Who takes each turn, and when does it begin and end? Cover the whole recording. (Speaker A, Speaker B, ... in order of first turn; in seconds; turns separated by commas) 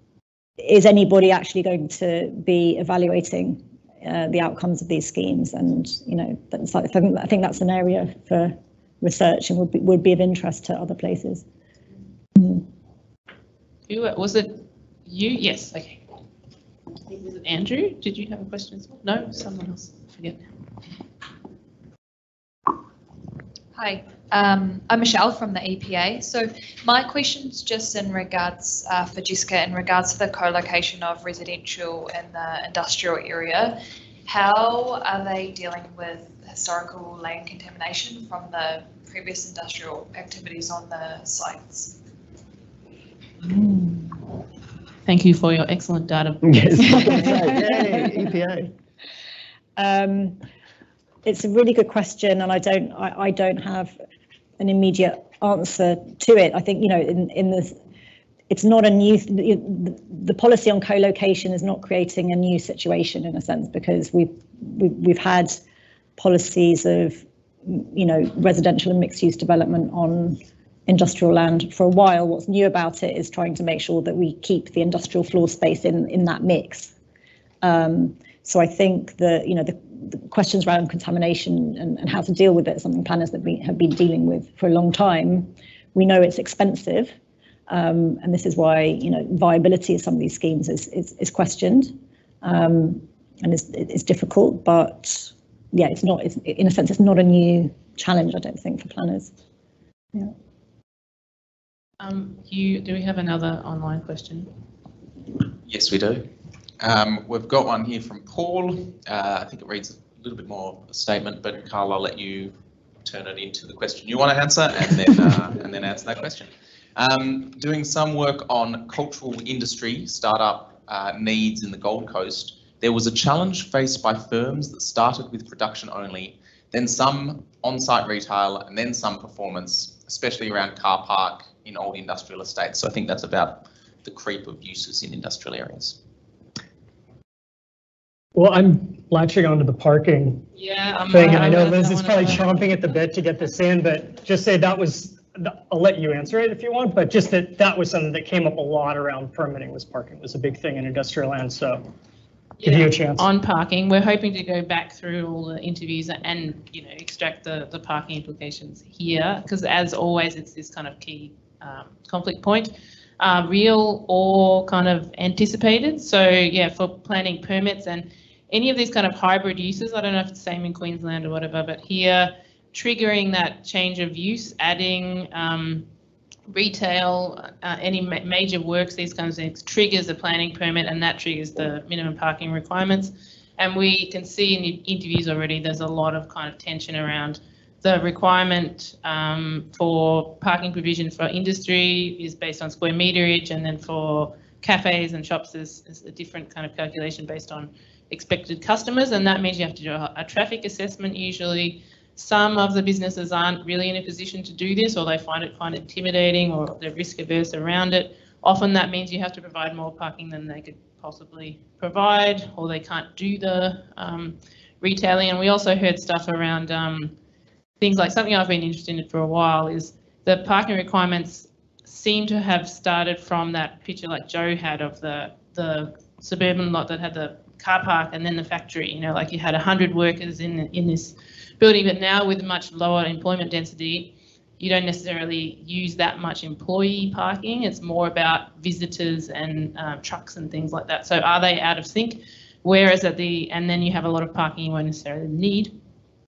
Speaker A: 0.6-11.4, Speaker A: 12.4-12.6, Speaker B: 13.9-16.0, Speaker B: 17.1-20.5, Speaker C: 23.8-42.0, Speaker B: 45.1-47.0, Speaker D: 46.4-48.7, Speaker A: 46.9-48.1, Speaker A: 49.8-50.4, Speaker A: 51.2-54.0, Speaker A: 54.6-57.8, Speaker A: 58.5-65.6, Speaker A: 66.2-76.9, Speaker A: 77.6-87.1, Speaker A: 87.7-99.3, Speaker B: 102.0-104.5, Speaker E: 105.7-106.3, Speaker E: 106.8-136.0, Speaker F: 138.3-140.5, Speaker B: 140.5-143.0, Speaker F: 141.1-151.8, Speaker B: 152.6-175.9, Speaker F: 152.7-153.3, Speaker B: 176.5-217.1, Speaker B: 217.8-245.8